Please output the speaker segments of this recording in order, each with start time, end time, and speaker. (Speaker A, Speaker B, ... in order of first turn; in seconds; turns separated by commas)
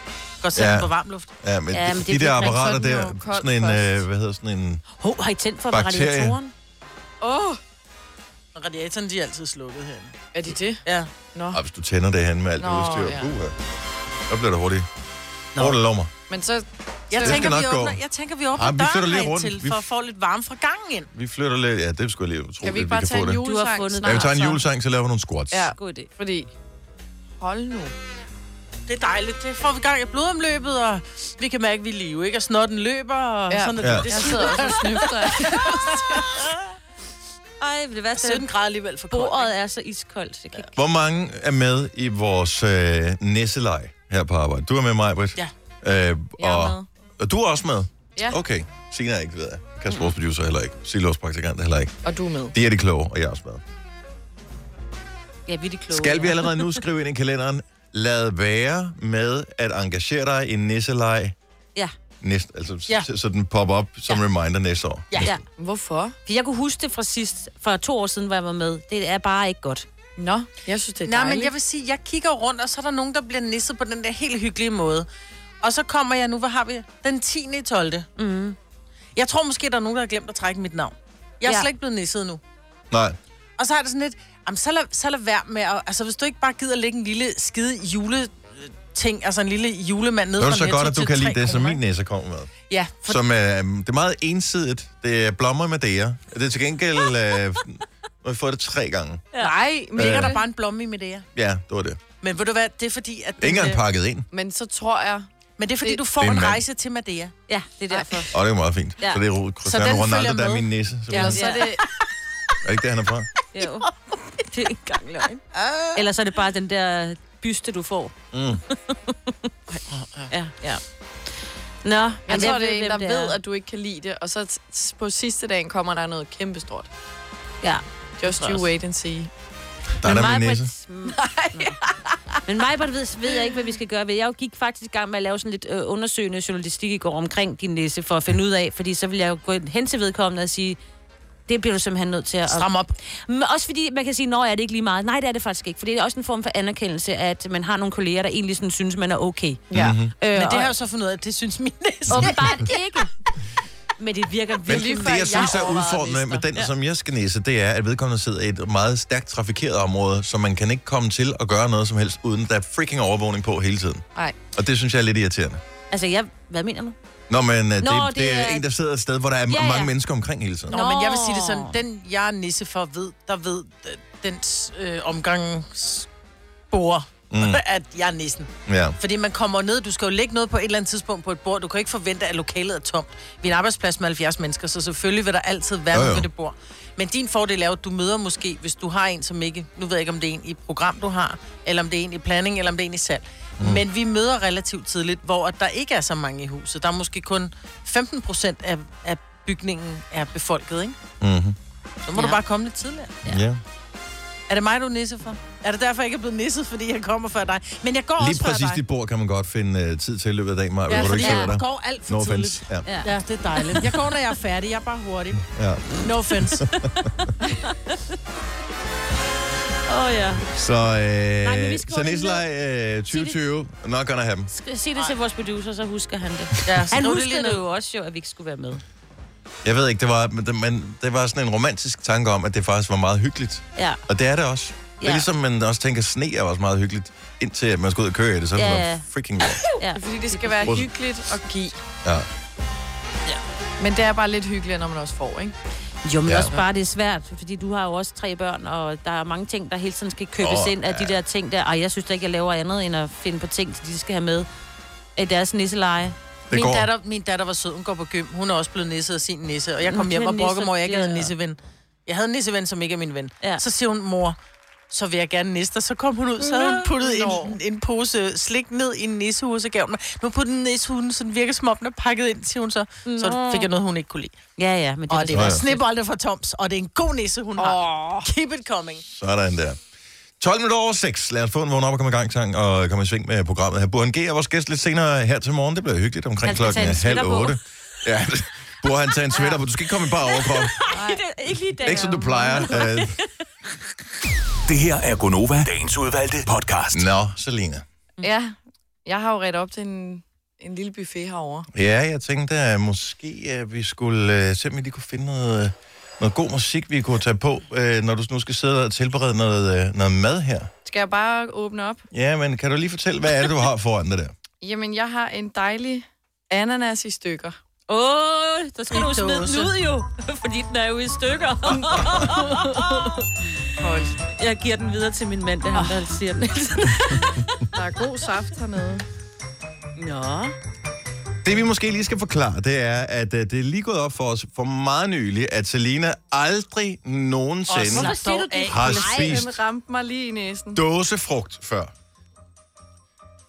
Speaker A: 0.4-1.3, Speaker B: 0.5-4.8, Speaker C: 1.7-2.8, Speaker D: 2.5-4.0, Speaker C: 5.0-6.5, Speaker B: 5.7-6.4, Speaker D: 7.2-7.6, Speaker A: 8.5-10.2, Speaker D: 10.3-11.6, Speaker B: 11.5-13.6, Speaker D: 12.6-13.3, Speaker B: 14.3-14.9, Speaker B: 15.6-16.1, Speaker D: 16.3-17.5, Speaker A: 17.1-21.1, Speaker B: 17.2-18.0, Speaker B: 18.5-19.9, Speaker B: 21.1-23.4, Speaker D: 22.6-24.6, Speaker C: 23.4-24.3, Speaker B: 24.0-25.7, Speaker D: 25.5-26.5, Speaker C: 25.7-26.1, Speaker D: 27.4-27.9, Speaker A: 28.9-36.6, Speaker D: 33.5-36.3, Speaker B: 33.8-34.7, Speaker C: 37.6-38.5, Speaker A: 38.1-39.5, Speaker C: 39.1-40.7, Speaker B: 40.7-51.9, Speaker D: 46.4-46.9, Speaker D: 52.0-52.5, Speaker B: 52.5-53.6, Speaker C: 55.5-56.8, Speaker B: 55.9-61.4, Speaker B: 62.2-65.3, Speaker D: 65.6-66.2, Speaker C: 66.2-69.8, Speaker D: 70.2-71.5, Speaker A: 71.0-75.1, Speaker A: 75.6-78.1, Speaker C: 78.2-78.6, Speaker A: 79.2-82.4, Speaker B: 82.9-83.2, Speaker A: 83.6-91.8, Speaker B: 90.4-92.5, Speaker A: 92.7-93.2, Speaker B: 93.0-99.3, Speaker D: 99.4-100.4, Speaker A: 99.4-101.3, Speaker B: 100.0-100.3, Speaker B: 101.3-102.0, Speaker A: 102.2-103.8, Speaker B: 103.4-104.3, Speaker D: 104.3-105.3, Speaker A: 105.6-107.3, Speaker B: 106.2-106.6, Speaker C: 107.5-108.3, Speaker A: 107.9-108.2, Speaker B: 108.3-111.5, Speaker A: 109.6-110.6, Speaker D: 111.1-111.8, Speaker C: 111.1-111.7, Speaker B: 112.6-113.3, Speaker C: 113.5-113.9, Speaker C: 114.4-115.3, Speaker A: 115.5-116.0, Speaker C: 115.9-118.1, Speaker B: 118.3-118.6, Speaker C: 118.9-119.4, Speaker A: 119.9-120.3, Speaker C: 120.3-120.8, Speaker C: 121.8-123.3, Speaker D: 122.3-126.9, Speaker D: 128.2-129.3, Speaker A: 128.2-128.7, Speaker B: 130.0-130.7, Speaker C: 130.0-131.8, Speaker D: 131.1-132.2, Speaker C: 132.4-140.8, Speaker C: 141.5-150.7, Speaker A: 142.5-142.9, Speaker D: 149.7-150.0, Speaker B: 149.7-150.1, Speaker A: 150.3-152.7, Speaker B: 152.1-152.3, Speaker C: 152.1-153.1, Speaker C: 154.0-156.7, Speaker D: 154.7-156.2, Speaker B: 154.7-165.6, Speaker C: 165.9-166.9, Speaker B: 167.3-170.7, Speaker C: 167.8-168.6, Speaker C: 169.5-169.9, Speaker A: 170.7-176.1, Speaker C: 170.7-171.8, Speaker A: 176.7-201.0, Speaker B: 177.3-177.6, Speaker B: 178.7-179.0, Speaker B: 185.9-186.3, Speaker B: 193.6-193.8, Speaker B: 201.2-201.6, Speaker A: 202.0-203.2, Speaker B: 203.3-203.6, Speaker A: 204.5-208.8, Speaker B: 208.2-212.9, Speaker A: 210.9-215.4, Speaker C: 210.9-211.5, Speaker C: 212.8-214.0, Speaker B: 215.4-217.3, Speaker A: 216.0-216.6, Speaker C: 216.6-218.0, Speaker C: 219.9-220.5, Speaker B: 220.5-224.5, Speaker C: 221.4-222.4, Speaker C: 223.1-223.4, Speaker C: 224.5-228.8, Speaker A: 226.6-227.6, Speaker B: 229.6-239.6, Speaker C: 233.8-234.0, Speaker C: 235.0-235.3, Speaker C: 238.6-239.1, Speaker C: 239.8-240.8, Speaker D: 239.9-241.8, Speaker D: 243.8-245.5, Speaker C: 246.0-254.5, Speaker B: 246.2-246.5, Speaker B: 250.4-251.2, Speaker C: 255.2-256.1, Speaker B: 256.5-256.9, Speaker A: 256.5-264.4, Speaker C: 259.8-261.3, Speaker A: 264.9-274.3, Speaker D: 266.6-267.6, Speaker C: 273.1-273.7, Speaker C: 274.6-275.8, Speaker A: 275.1-279.0, Speaker B: 275.3-275.6, Speaker D: 277.6-278.2, Speaker B: 279.1-279.8, Speaker B: 280.4-290.8, Speaker C: 286.4-287.6, Speaker C: 290.1-293.2, Speaker D: 290.9-291.2, Speaker B: 291.8-293.1, Speaker E: 294.6-297.1, Speaker B: 296.9-297.8, Speaker D: 298.2-301.7, Speaker B: 301.7-310.7, Speaker D: 310.9-312.0, Speaker B: 312.1-314.3, Speaker D: 314.6-317.6, Speaker C: 317.9-323.5, Speaker A: 318.9-319.7, Speaker D: 322.1-323.0, Speaker A: 323.8-324.1, Speaker C: 324.3-327.6, Speaker D: 325.7-325.9, Speaker D: 327.7-329.0, Speaker C: 330.0-330.5, Speaker B: 331.4-339.6, Speaker A: 337.7-339.1, Speaker C: 337.8-339.4, Speaker D: 339.1-340.8, Speaker B: 340.7-341.9